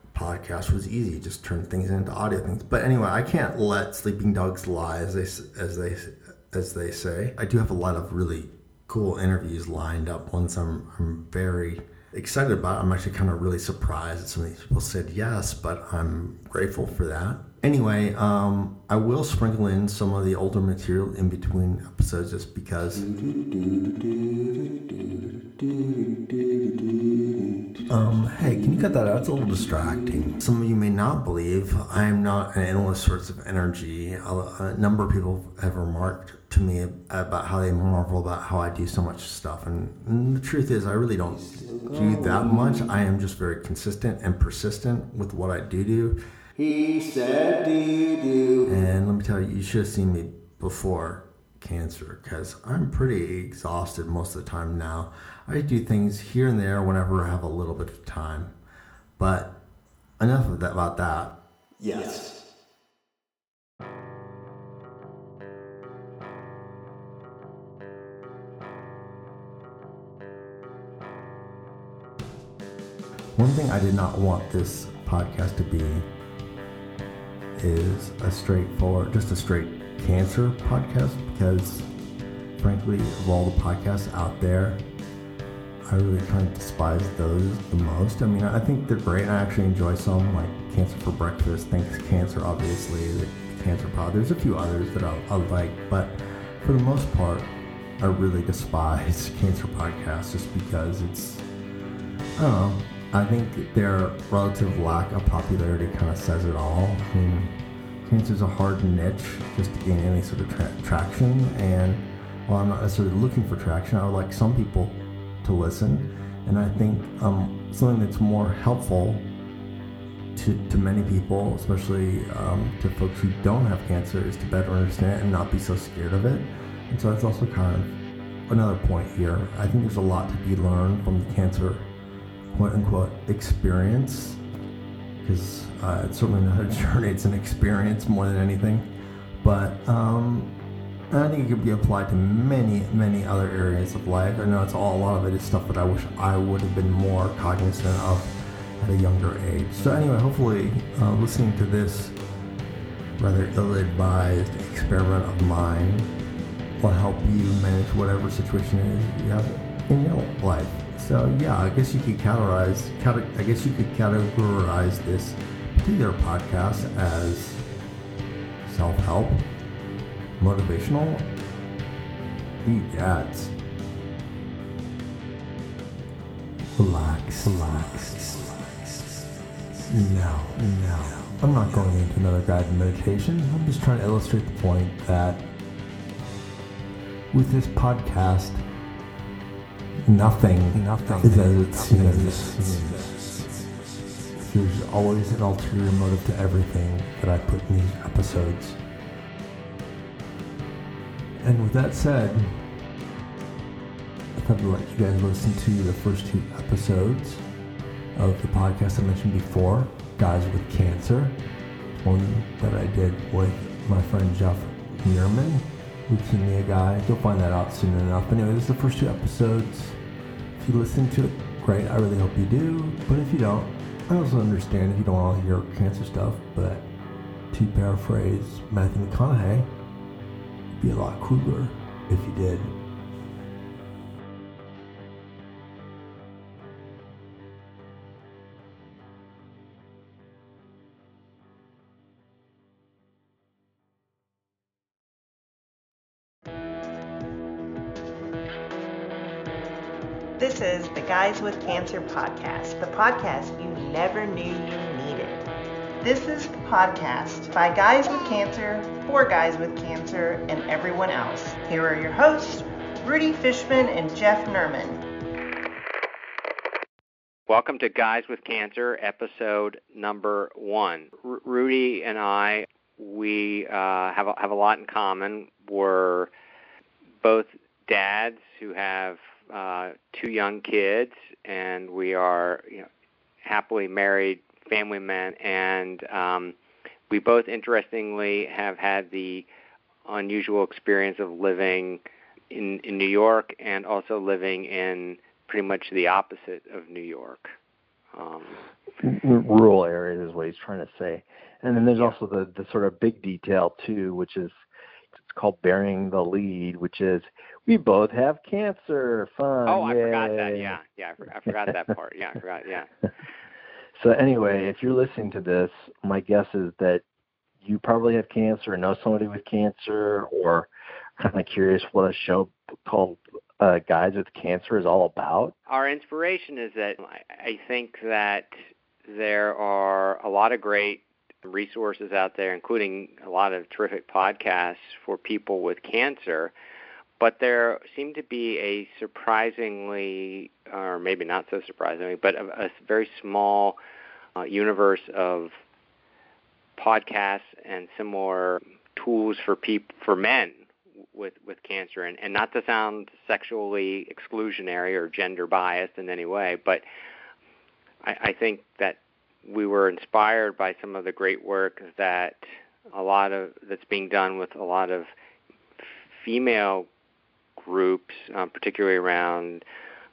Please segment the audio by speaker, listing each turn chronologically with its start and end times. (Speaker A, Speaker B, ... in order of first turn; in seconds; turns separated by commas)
Speaker A: 0.1-23.0, Speaker B: 22.9-27.3, Speaker A: 27.9-46.1, Speaker B: 28.4-28.9, Speaker B: 29.5-30.0, Speaker B: 41.3-43.0, Speaker B: 46.5-48.9, Speaker A: 48.7-58.5, Speaker A: 59.2-59.5, Speaker A: 60.2-61.3, Speaker A: 61.9-62.3, Speaker A: 73.4-75.9, Speaker A: 77.6-81.8, Speaker A: 82.6-84.8, Speaker A: 85.9-97.5, Speaker A: 98.0-101.4, Speaker A: 102.4-107.5, Speaker A: 108.1-112.0, Speaker A: 112.5-114.9, Speaker A: 115.4-119.2, Speaker A: 120.3-127.9, Speaker A: 128.5-131.8, Speaker A: 132.6-134.3, Speaker A: 135.2-138.8, Speaker A: 139.4-140.4, Speaker A: 141.1-148.2, Speaker A: 148.8-152.0, Speaker A: 153.2-155.9, Speaker A: 156.9-159.4, Speaker A: 160.2-165.3, Speaker A: 165.9-167.6, Speaker A: 168.7-169.3, Speaker A: 170.4-171.2, Speaker A: 172.7-173.5, Speaker A: 176.8-178.4, Speaker A: 179.9-185.3, Speaker A: 187.3-188.5, Speaker A: 190.1-193.4, Speaker B: 190.7-193.4, Speaker C: 191.1-191.5, Speaker A: 194.5-198.7, Speaker A: 201.4-202.4, Speaker A: 204.4-207.4, Speaker A: 208.2-211.3, Speaker A: 212.0-215.6, Speaker A: 216.1-219.9, Speaker A: 220.6-226.8, Speaker A: 227.5-229.6, Speaker A: 230.9-231.7, Speaker A: 232.3-232.6, Speaker D: 250.4-255.5, Speaker D: 256.0-265.0, Speaker E: 267.5-276.3, Speaker E: 277.2-282.9, Speaker E: 283.4-286.6, Speaker E: 287.1-289.5, Speaker E: 290.1-297.5, Speaker E: 298.1-298.6, Speaker C: 299.0-304.5, Speaker E: 301.8-302.2, Speaker C: 305.1-310.8, Speaker E: 309.7-312.9, Speaker C: 311.5-311.7, Speaker C: 314.0-317.0, Speaker C: 317.6-325.5, Speaker E: 325.7-328.5, Speaker E: 329.1-336.5, Speaker E: 337.2-343.8, Speaker E: 344.4-345.6, Speaker E: 346.8-356.8, Speaker E: 358.0-365.1, Speaker E: 365.8-366.9, Speaker E: 367.6-369.6